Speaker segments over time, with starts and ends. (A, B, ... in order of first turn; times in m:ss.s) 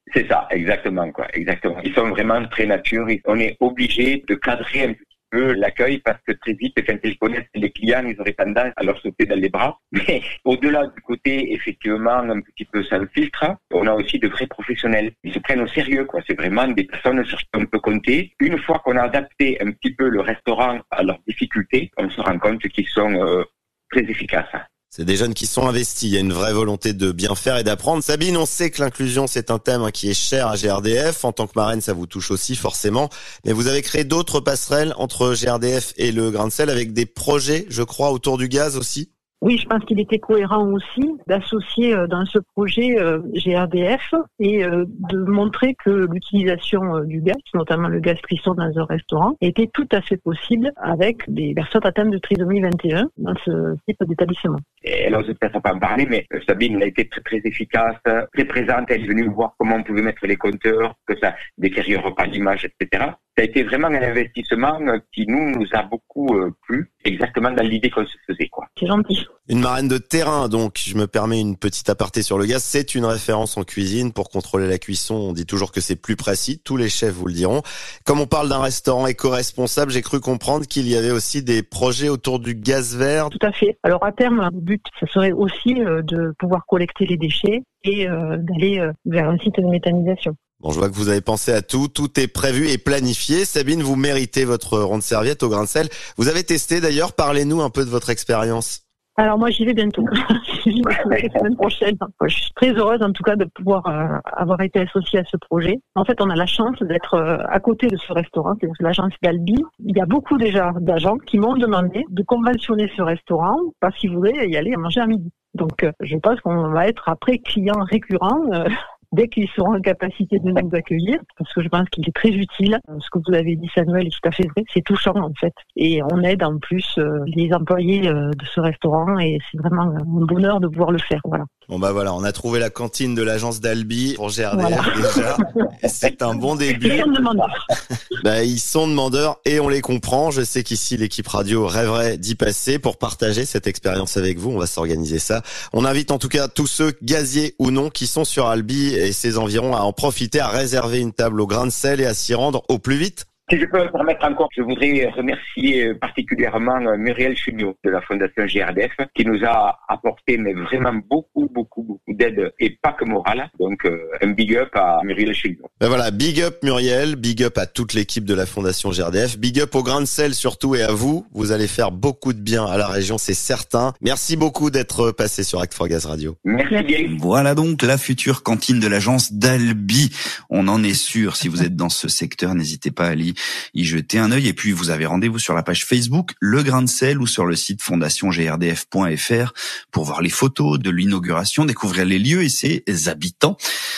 0:00.1-0:24.6 A
0:24.9-0:39.1 B
0:39.4-0:54.6 C
0:54.8-1:08.7 A
1:08.8-1:09.3 C
1:09.5-1:23.3 B
1:23.3-1:30.4 C
1:30.6-1:38.8 B
1:39.2-2:11.5 C
2:11.7-2:17.2 B
2:14.5-2:15.7 C
2:16.8-2:17.7 C
2:18.2-2:33.3 B
2:33.5-2:45.7 A
2:45.8-2:56.4 B
2:56.4-2:57.2 A
2:57.1-3:13.6 D